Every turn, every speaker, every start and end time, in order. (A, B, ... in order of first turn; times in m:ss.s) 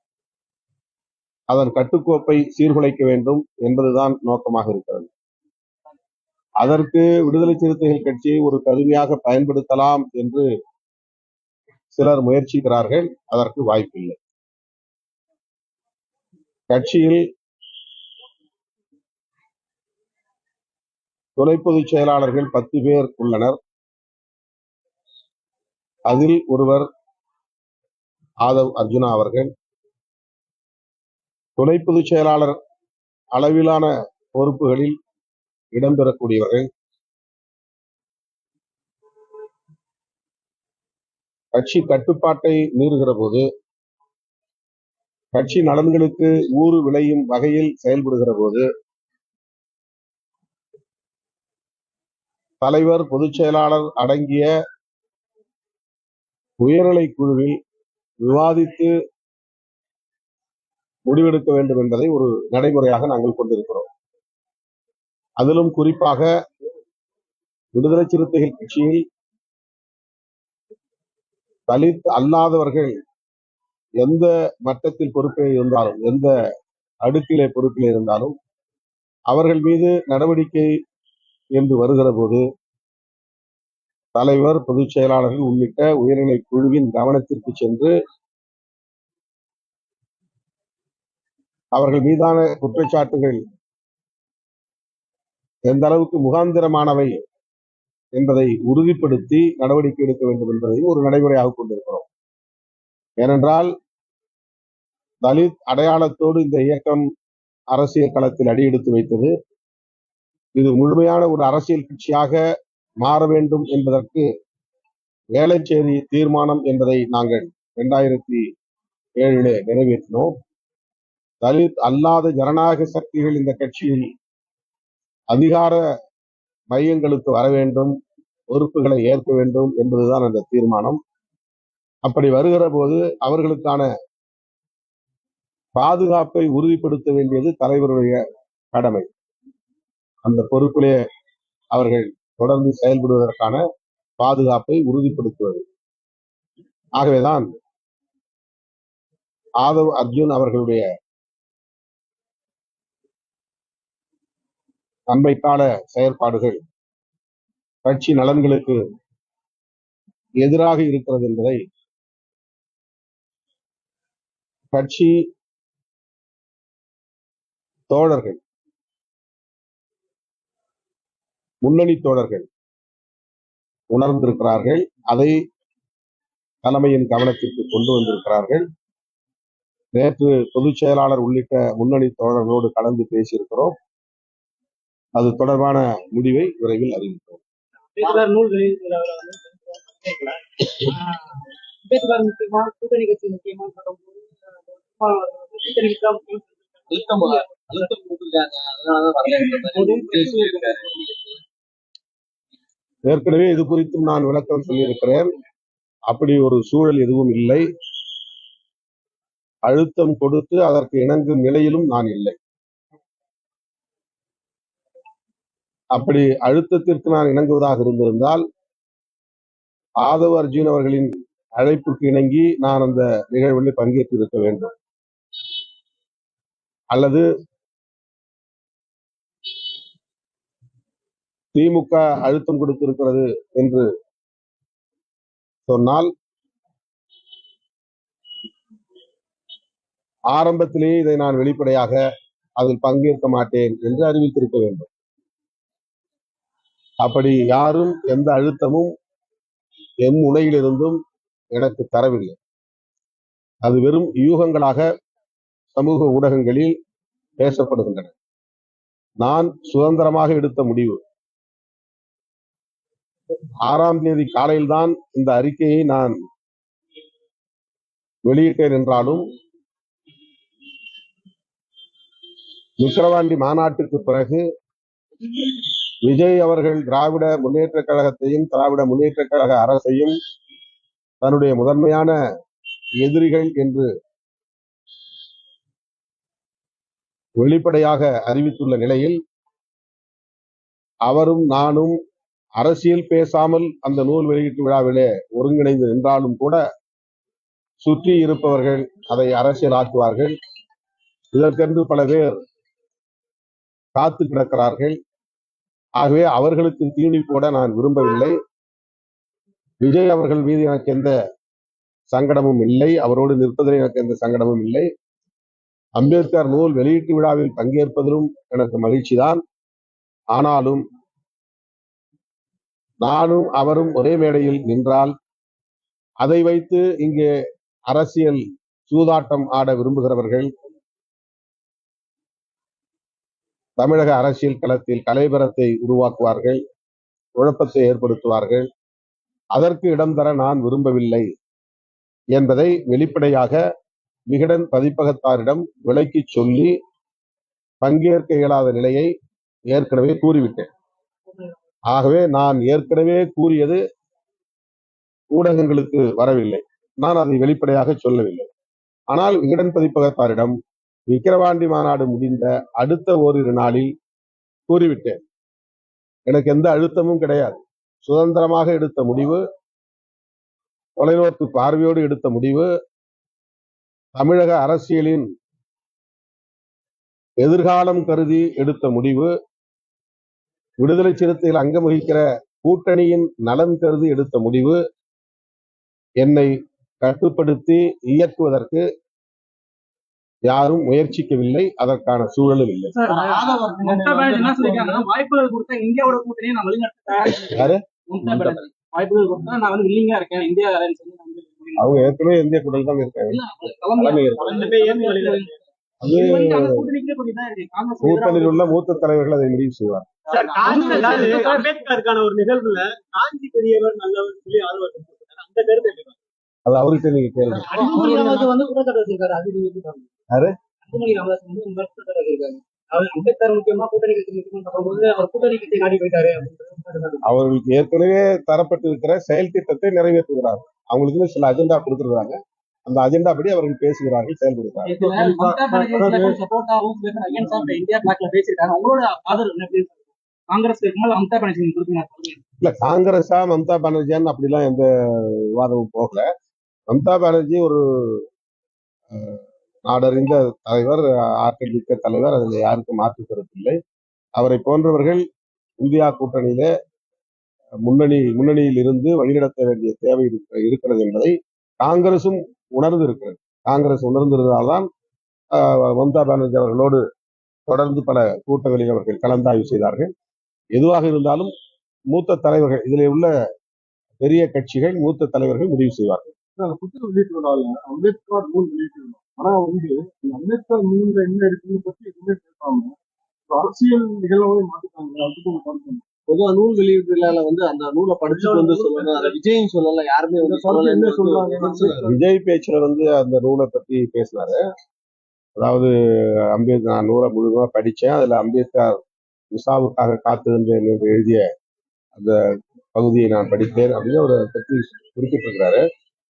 0:01.5-0:05.1 A
0:06.6-0:10.4 A
0:11.9-0:14.2 A
0:16.7-0:17.2 A
0:21.4-0:23.6 A
0:26.1-0:26.9 A
0:28.4-0:29.5 A
0:31.6-0:32.6 A
0:33.4-0:35.0 A
0:35.7-0:36.7 A
0:41.5-0:43.4 A
0:45.3-0:48.6 A
0:52.6-0:54.5 A
0:56.6-0:57.6 A
0:58.2-0:58.9 A
1:01.1-1:03.9 A
1:05.4-1:06.3 A
1:07.8-1:09.0 A
1:11.7-1:12.9 A
1:14.0-1:16.3 A
1:17.0-1:18.4 A
1:19.3-1:20.7 A
1:21.6-1:22.4 A
1:24.2-1:27.9 A
1:31.7-1:33.4 A
1:35.7-1:37.1 A
1:38.2-1:42.1 A
1:43.2-1:43.7 A
1:45.2-1:47.0 A
1:47.7-1:49.3 A
1:50.6-1:52.4 A
1:53.0-1:54.3 A
1:55.3-1:58.4 A
1:59.2-2:00.3 A
2:01.4-2:04.1 A
2:05.3-2:05.8 A
2:06.7-2:07.9 A
2:08.5-2:11.0 A
2:12.0-2:13.9 A
2:15.8-2:18.2 A
2:18.7-2:19.1 A
2:20.2-2:21.0 A
2:21.7-2:23.6 A
2:24.2-2:25.6 A
2:27.0-2:27.5 A
2:29.6-2:30.8 A
2:35.1-2:36.6 A
2:37.8-2:38.8 A
2:40.4-2:41.6 A
2:44.7-2:45.2 A
2:47.9-2:48.4 A
2:51.6-2:52.5 A
2:53.9-2:55.4 A
2:56.6-2:58.6 A
3:00.0-3:03.8 A
3:05.2-3:07.4 A
3:07.9-3:17.9 B
3:16.9-3:21.4 C
3:19.2-3:20.9 B
3:23.1-3:25.3 A
3:26.1-3:27.6 A
3:29.7-3:32.4 A
3:36.0-3:38.4 A
3:40.0-3:44.7 A
3:46.9-3:47.2 A
3:51.6-3:53.9 A
3:55.7-3:56.1 A
4:00.3-4:02.0 A
4:02.6-4:04.9 A
4:07.0-4:08.9 A
4:10.0-4:11.0 A
4:11.6-4:12.4 A
4:13.6-4:14.8 A
4:15.8-4:16.7 A
4:17.4-4:18.1 A
4:19.2-4:21.0 A
4:23.6-4:26.1 A
4:28.3-4:29.2 A
4:32.8-4:34.4 A
4:36.0-4:40.2 A
4:41.2-4:42.1 A
4:43.0-4:43.9 A
4:47.4-4:49.2 A
4:51.1-4:52.0 A
4:52.6-4:56.6 A
4:57.8-5:00.3 A
5:01.3-5:02.3 A
5:04.0-5:05.0 A
5:06.0-5:08.4 A
5:09.8-5:11.1 A
5:12.1-5:14.9 A
5:16.0-5:19.4 A
5:20.3-5:20.8 A
5:23.0-5:25.1 A
5:26.2-5:27.3 A
5:27.9-5:30.5 A
5:33.8-5:36.6 A
5:37.4-5:38.7 A
5:39.6-5:41.2 A
5:42.3-5:43.6 A
5:44.3-5:46.7 A
5:47.8-5:49.1 A
5:49.7-5:50.7 A
5:51.9-5:53.8 A
5:55.3-5:58.5 A
5:59.1-6:00.6 A
6:01.1-6:03.9 A
6:04.7-6:05.2 A
6:06.3-6:09.4 A
6:11.0-6:12.7 A
6:14.2-6:15.3 A
6:17.4-6:19.3 A
6:20.8-6:24.8 A
6:26.2-6:28.8 A
6:30.5-6:33.0 A
6:33.0-6:42.0 B
6:33.0-6:35.0 C
6:37.3-6:38.6 A
6:41.8-6:43.4 A
6:43.3-6:45.5 B
6:44.0-6:44.4 A
6:44.4-6:45.5 D
6:46.0-6:46.8 A
6:46.0-6:48.9 B
6:48.0-6:50.1 A
6:50.3-6:51.8 B
6:50.3-6:56.2 D
6:56.7-6:57.7 A
6:57.6-6:58.5 C
6:57.7-6:59.9 B
7:00.8-7:07.2 B
7:07.2-7:15.1 A
7:14.8-7:20.0 B
7:20.5-7:22.4 B
7:22.6-7:26.3 A
7:26.9-7:28.2 A
7:29.1-7:33.8 A
7:34.4-7:35.2 A
7:35.8-7:36.7 A
7:37.8-7:44.9 A
7:45.5-7:47.0 A
7:47.7-7:50.1 A
7:50.7-7:51.5 A
7:52.1-7:53.3 A
7:54.2-7:56.3 A
7:56.6-8:03.0 E
8:03.5-8:06.0 E
8:06.3-8:12.1 C
8:08.3-8:09.4 D
8:10.4-8:12.2 E
8:12.1-8:14.6 A
8:15.6-8:15.9 A
8:16.5-8:19.0 A
8:19.5-8:21.4 A
8:22.9-8:25.8 A